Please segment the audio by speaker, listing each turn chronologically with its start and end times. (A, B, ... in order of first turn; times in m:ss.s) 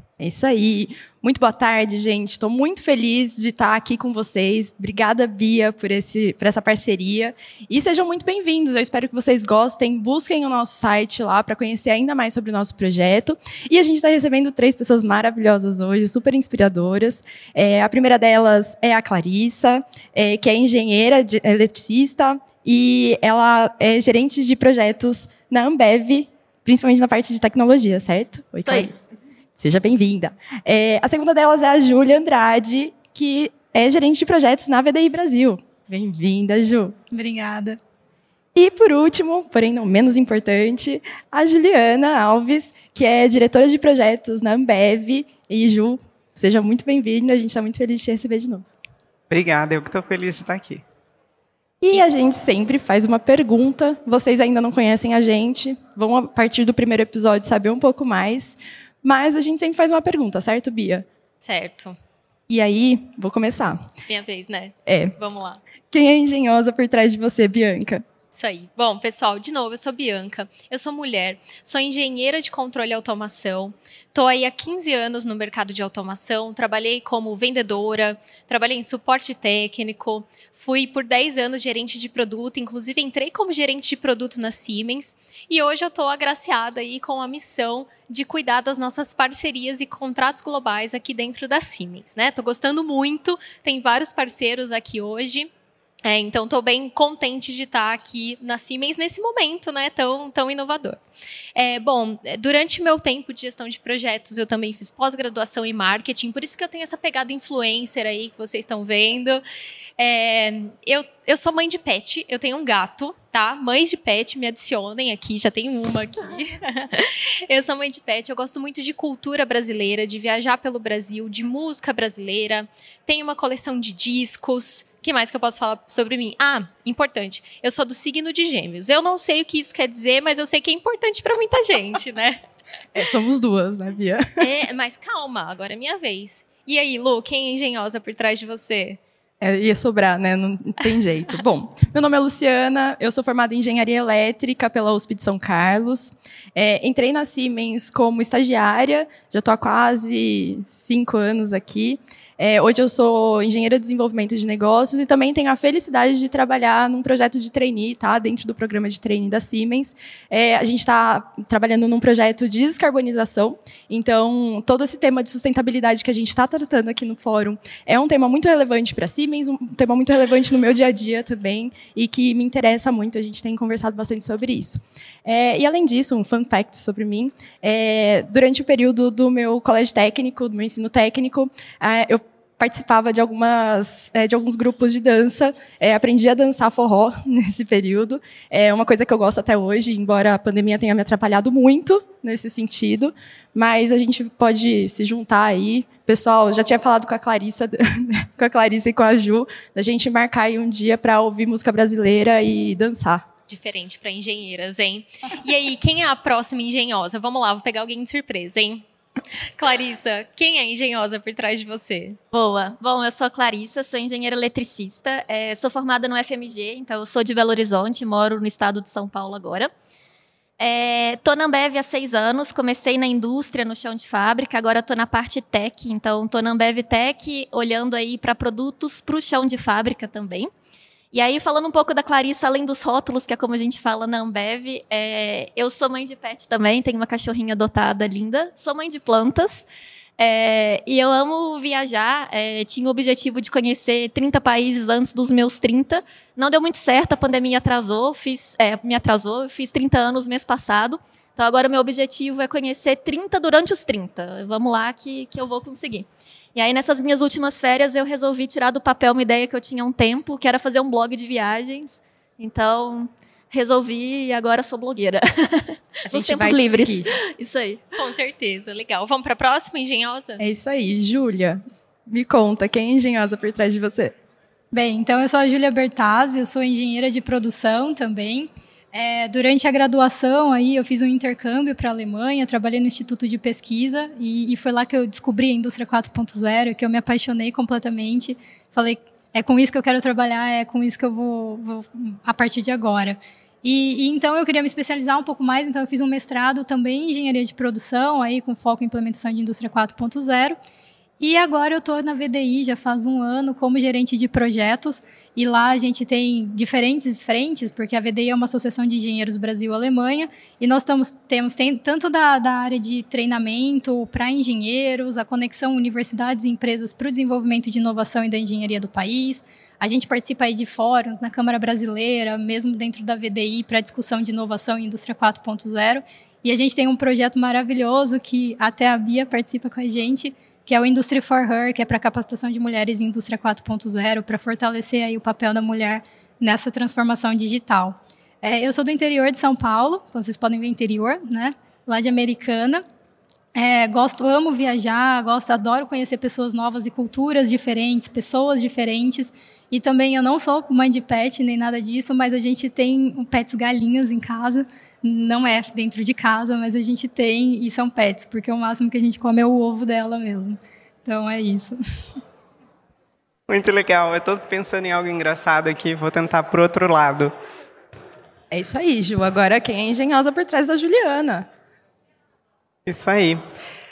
0:00.2-0:29.0 A
0:29.6-0:37.0 A
0:37.1-0:37.8 B
0:38.5-0:48.6 A
0:49.3-0:50.8 C
0:51.8-1:01.0 A
1:01.4-1:02.0 D
1:02.5-1:03.9 A
1:04.1-1:05.6 D
1:04.9-1:05.1 A
1:05.9-1:08.0 A
1:08.3-1:35.5 D
1:36.0-1:41.0 D
1:41.5-1:49.4 D
1:50.0-2:12.4 D
2:12.9-2:14.5 A
2:14.4-2:19.0 D
2:19.4-3:23.3 A
3:23.5-3:28.8 D
3:29.6-3:32.2 D
3:32.3-3:39.7 E
3:40.6-3:50.5 E
3:51.1-3:59.6 E
4:00.2-4:27.9 E
4:26.1-4:27.1 A
4:28.0-4:30.4 D
4:30.4-4:34.1 A
4:34.7-5:00.6 B
5:01.2-5:42.8 B
5:43.5-6:01.8 B
6:03.5-6:07.3 C
6:08.5-6:11.5 A
6:12.8-6:13.4 C